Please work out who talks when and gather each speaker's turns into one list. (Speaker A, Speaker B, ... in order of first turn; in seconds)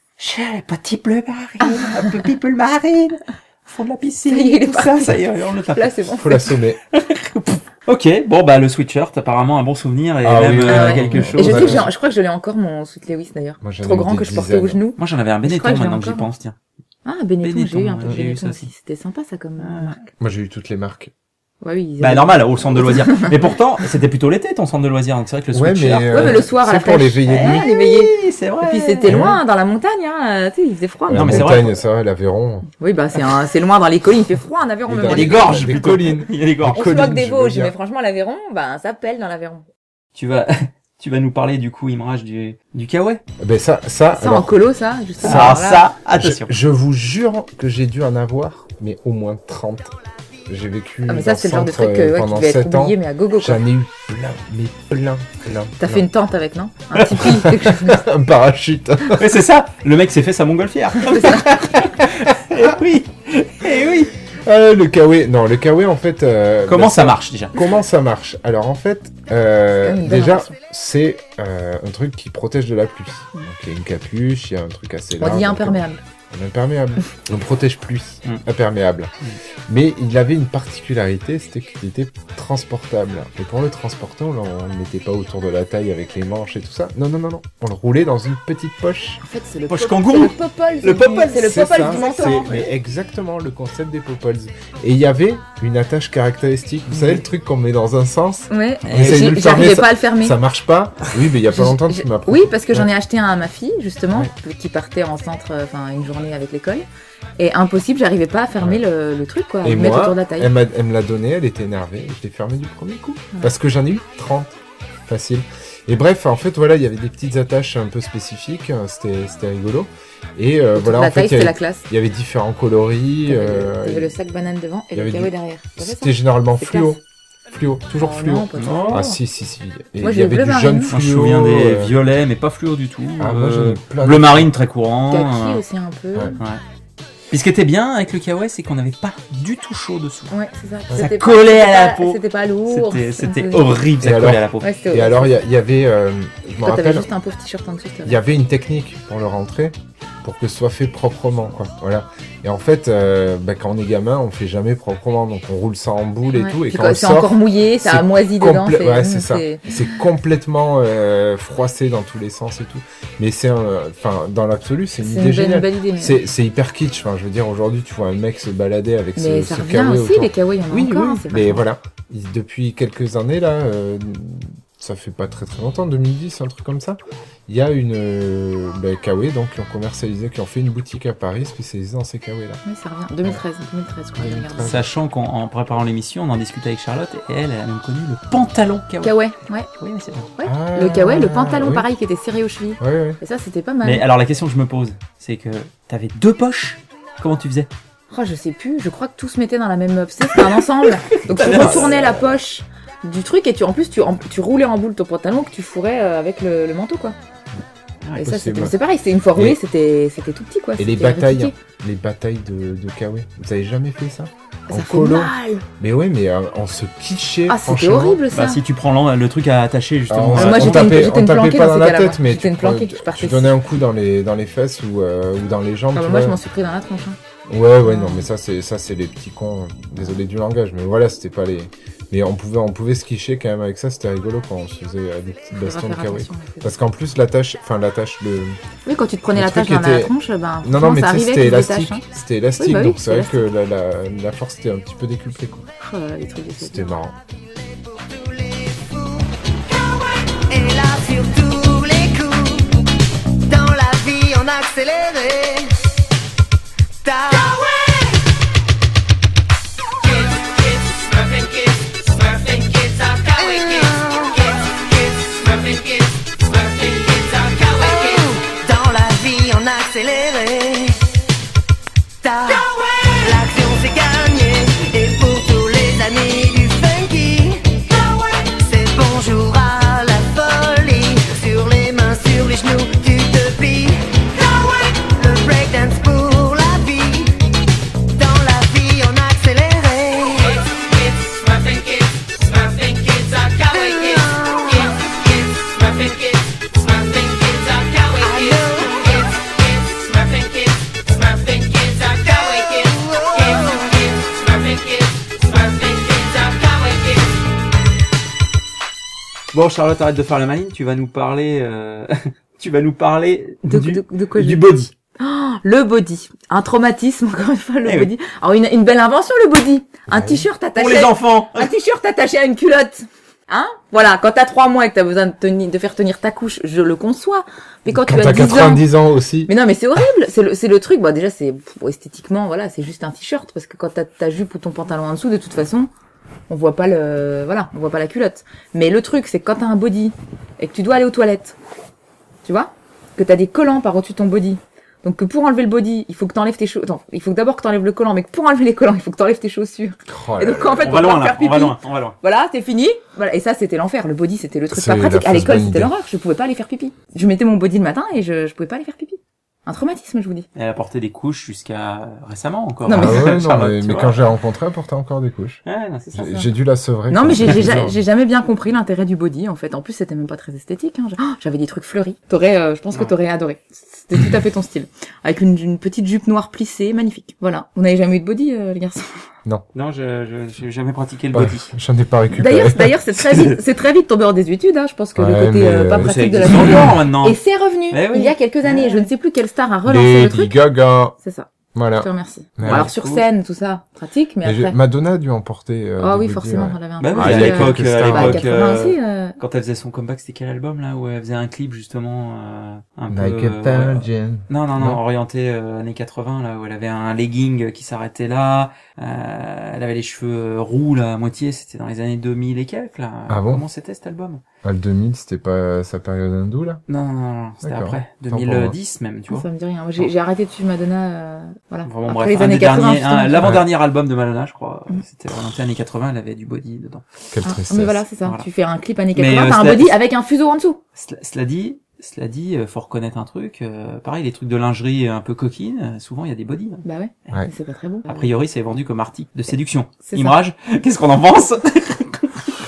Speaker A: 0.2-6.0, 6.9-11.9, 15.0-16.6, 17.4-18.7, 19.6-20.0, 22.0-26.5, 27.3-29.4, 31.1-31.7, 35.0-37.0, 40.1-43.2, 45.2-46.5, 59.2-64.1, 66.7-67.6, 89.7-92.7, 96.9-97.2, 98.9-99.3, 128.6-129.0, 130.9-135.6, 137.3-140.3, 141.0-144.7, 184.7-189.2, 189.8-190.3, 193.8-197.7, 200.3-202.1, 218.3-221.1, 309.5-314.9, 317.9-318.1, 320.8-321.7, 350.8-352.2, 360.6-364.2, 365.7-366.5, 379.7-381.7, 386.0-387.4, 387.9-389.1, 392.6-393.3, 397.0-414.4, 416.9-419.5, 421.9-427.1, 429.1-430.0, 431.0-437.4, 438.1-442.3
Speaker B: 4.3-6.4, 10.7-16.2, 17.1-20.0, 21.6-23.3, 26.1-31.6, 32.8-35.8, 36.7-39.6, 44.1-45.9, 51.1-53.6, 55.8-58.0, 61.1-61.4, 69.8-70.6, 75.2-76.0, 89.2-92.7, 98.5-100.4, 101.5-106.9, 107.4-110.5, 120.8-121.8, 123.3-127.0, 127.9-129.2, 130.0-130.9, 135.1-136.4, 140.3-143.8, 144.6-145.3, 146.6-148.2, 156.3-159.8, 165.0-166.2, 169.2-171.6, 182.7-184.7, 189.0-189.7, 190.4-194.1, 198.1-207.2, 208.2-211.6, 214.7-215.7, 217.5-218.6, 220.4-223.6, 225.9-227.2, 227.8-228.3, 235.5-236.7, 238.9-242.0, 242.6-243.4, 245.8-246.9, 313.7-314.6, 315.2-328.9, 329.5-335.9, 336.5-341.6, 342.4-360.5, 362.9-363.4, 367.1-379.3, 382.4-390.6, 391.2-394.8, 396.0-399.4, 419.3-423.5, 427.4-430.8, 436.8-438.3, 440.0-440.4
Speaker C: 6.2-6.8, 10.2-11.9, 13.6-14.8, 20.2-21.1, 25.5-27.7, 29.1-29.4, 31.1-32.7, 34.9-37.8, 43.4-44.6, 45.2-56.0, 57.2-59.3, 64.4-79.1, 79.7-89.2, 91.4-102.9, 109.6-124.2, 124.9-127.0, 127.5-131.9, 133.2-134.5, 144.0-147.1, 148.1-182.6, 184.2-184.8, 190.4-191.9, 192.8-193.2, 201.4-202.3, 208.2-208.7, 210.8-218.2, 220.1-226.4, 227.5-238.6, 239.3-245.7, 246.6-247.2, 320.1-320.4, 327.9-329.5, 350.1-351.1, 354.7-355.9, 362.9-365.6, 366.1-368.0, 381.3-382.9, 385.2-386.9, 389.9-391.2, 391.7-392.9, 394.4-398.5, 403.1-405.0, 413.3-413.6, 414.6-416.8, 417.6-418.8, 427.3-428.0
Speaker D: 247.7-249.3, 250.5-252.8, 253.5-255.8, 257.0-257.6, 263.4-264.4, 267.8-271.0, 272.2-277.9, 278.5-287.4, 288.1-290.5, 293.7-294.8, 298.2-299.2, 302.9-303.8
Speaker E: 260.0-268.3, 272.5-273.3, 290.4-307.3